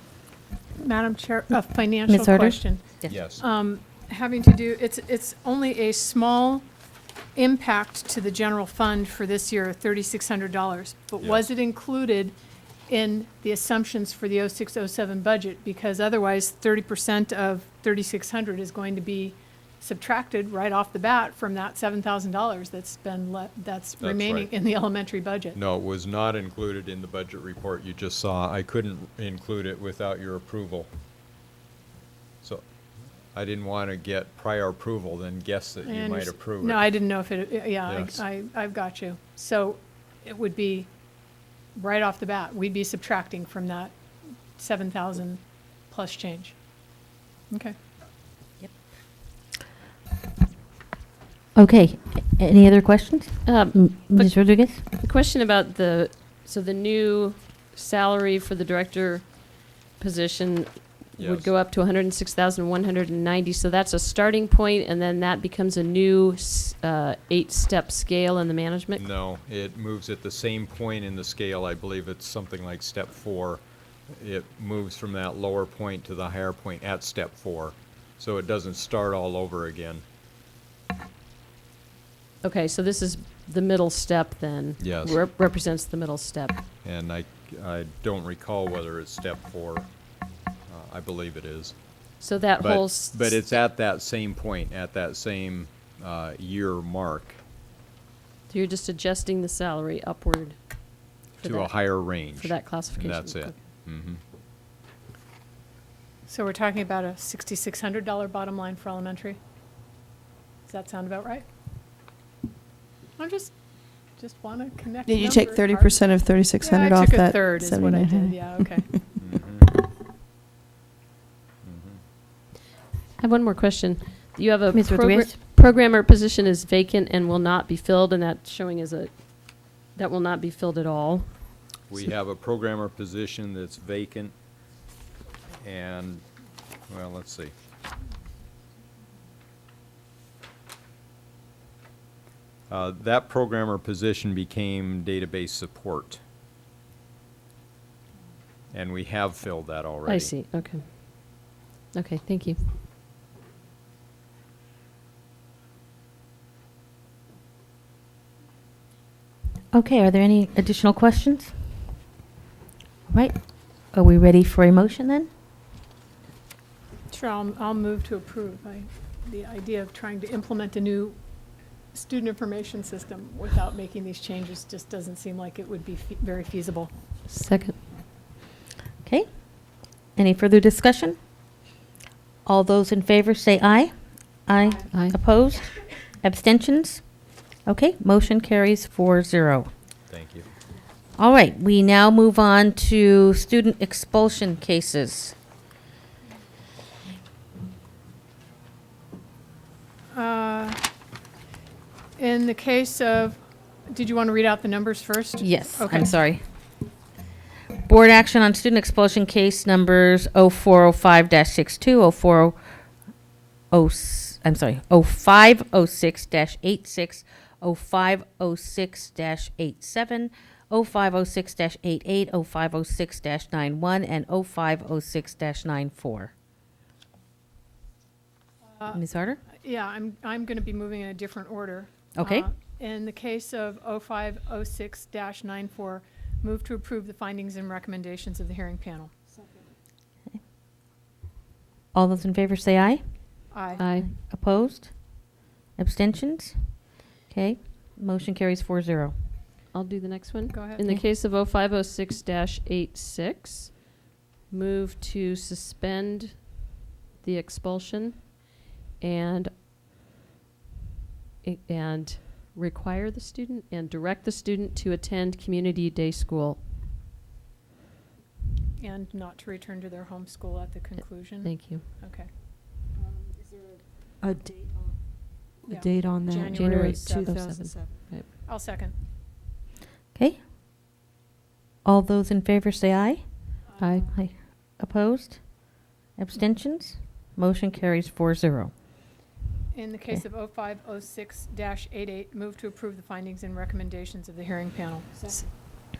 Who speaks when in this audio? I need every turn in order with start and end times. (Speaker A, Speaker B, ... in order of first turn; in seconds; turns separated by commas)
Speaker A: 0.8-6.7, Speaker B: 2.1-3.2, Speaker C: 3.1-3.4, Speaker A: 7.3-12.3, Speaker C: 11.2-11.5, Speaker A: 12.9-25.6, Speaker C: 24.0-24.5, Speaker C: 25.5-30.9, Speaker C: 33.3-36.9, Speaker A: 35.8-40.9, Speaker C: 37.9-38.2, Speaker A: 41.8-43.9, Speaker A: 44.6-46.5, Speaker A: 47.5-47.7, Speaker B: 51.5-54.8, Speaker D: 53.4-69.0, Speaker C: 61.2-61.5, Speaker C: 69.0-80.0, Speaker D: 82.4-86.6, Speaker C: 84.8-85.2, Speaker C: 86.8-89.9, Speaker C: 90.7-91.7, Speaker D: 92.2-93.5, Speaker C: 92.6-97.4, Speaker D: 98.5-103.6, Speaker C: 101.4-104.2, Speaker A: 106.3-109.4, Speaker A: 110.7-111.4, Speaker A: 113.2-113.5, Speaker A: 114.2-116.1, Speaker E: 115.1-119.0, Speaker A: 116.6-118.9, Speaker C: 119.2-119.7, Speaker C: 121.6-122.0, Speaker D: 123.2-131.3, Speaker B: 124.7-125.3, Speaker C: 131.9-134.3, Speaker C: 135.6-136.2, Speaker C: 136.9-137.5, Speaker C: 142.7-146.2, Speaker C: 148.7-150.3, Speaker D: 150.0-152.6, Speaker B: 159.7-161.8, Speaker B: 163.1-165.3, Speaker A: 167.1-171.2, Speaker A: 171.9-176.9, Speaker D: 177.3-177.7, Speaker B: 179.0-181.2, Speaker B: 182.4-189.7, Speaker D: 184.9-185.2, Speaker C: 190.1-190.5, Speaker B: 191.2-195.3, Speaker A: 200.1-200.8, Speaker A: 202.2-206.1, Speaker B: 205.4-206.4, Speaker B: 207.8-212.6, Speaker B: 213.7-226.3, Speaker B: 228.9-229.4, Speaker A: 229.5-239.2, Speaker B: 232.2-232.5, Speaker B: 241.9-243.2, Speaker A: 243.5-243.8, Speaker D: 243.8-244.1, Speaker B: 243.9-249.1, Speaker D: 249.7-259.5, Speaker A: 250.5-250.9, Speaker D: 261.4-266.6, Speaker A: 268.8-272.3, Speaker D: 271.4-271.8, Speaker F: 273.4-278.1, Speaker A: 275.6-277.3, Speaker D: 276.4-278.3, Speaker A: 278.4-278.9, Speaker B: 280.1-280.4, Speaker B: 281.8-288.7, Speaker A: 283.8-284.1, Speaker D: 283.8-284.1, Speaker A: 289.7-295.4